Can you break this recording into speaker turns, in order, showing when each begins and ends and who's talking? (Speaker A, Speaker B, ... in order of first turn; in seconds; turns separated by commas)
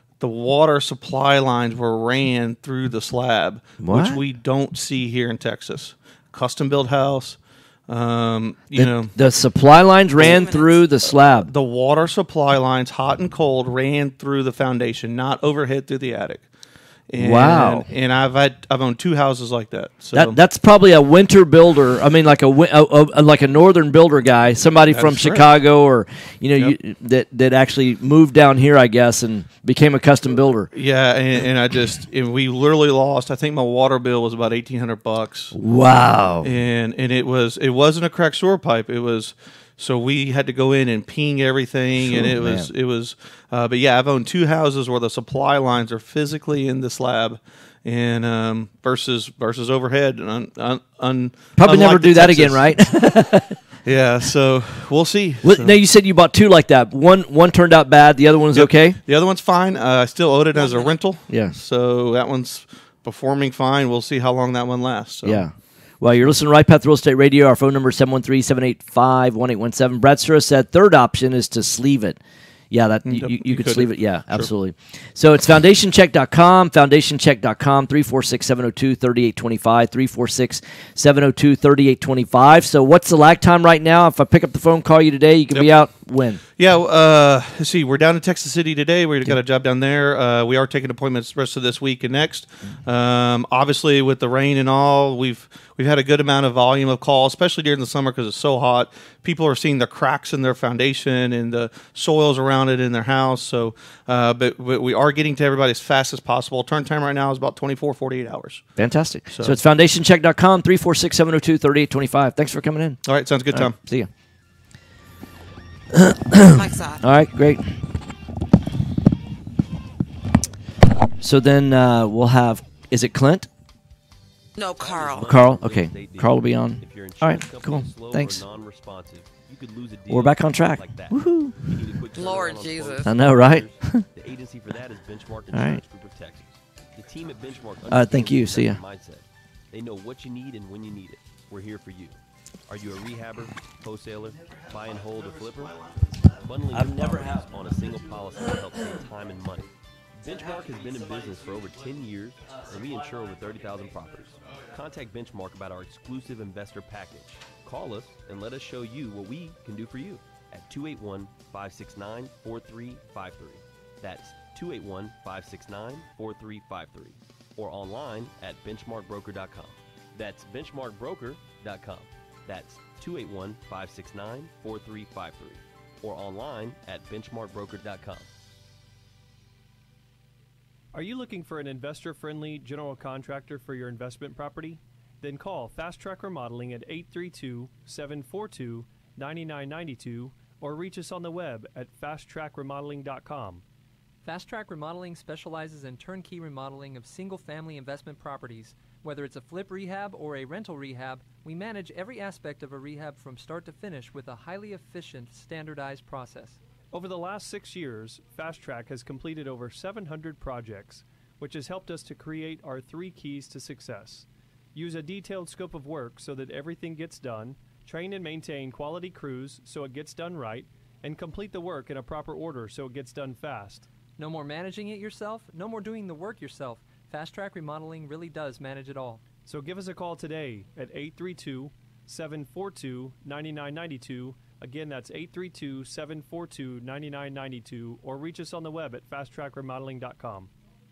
Speaker A: 0.2-9.1, Speaker B: 3.8-4.2, Speaker B: 8.7-11.5, Speaker A: 10.2-16.5, Speaker C: 10.2-10.8, Speaker A: 17.1-20.4, Speaker B: 17.1-17.9, Speaker B: 20.1-30.7, Speaker A: 24.9-25.5, Speaker A: 30.7-35.5, Speaker B: 35.5-36.5, Speaker A: 36.4-52.9, Speaker B: 42.0-42.7, Speaker B: 51.5-53.6, Speaker A: 53.8-55.8, Speaker B: 55.4-59.0, Speaker A: 58.5-65.4, Speaker C: 60.5-61.0, Speaker B: 61.3-61.6, Speaker B: 65.2-72.2, Speaker B: 72.7-86.4, Speaker A: 73.0-74.5, Speaker A: 85.5-85.8, Speaker A: 86.5-109.6, Speaker B: 108.8-114.1, Speaker A: 113.0-113.8, Speaker B: 115.9-117.8, Speaker C: 116.5-117.0, Speaker B: 121.2-123.5, Speaker C: 124.5-125.3, Speaker D: 124.8-145.8, Speaker B: 125.2-128.4, Speaker B: 130.1-132.0, Speaker C: 132.1-133.1, Speaker B: 133.0-134.0, Speaker B: 135.5-135.8, Speaker B: 137.9-138.8, Speaker B: 144.3-149.1, Speaker D: 146.4-178.3, Speaker B: 150.2-154.5, Speaker E: 180.9-193.6, Speaker F: 194.2-206.6, Speaker E: 206.9-223.9, Speaker F: 224.2-229.3, Speaker E: 229.4-240.5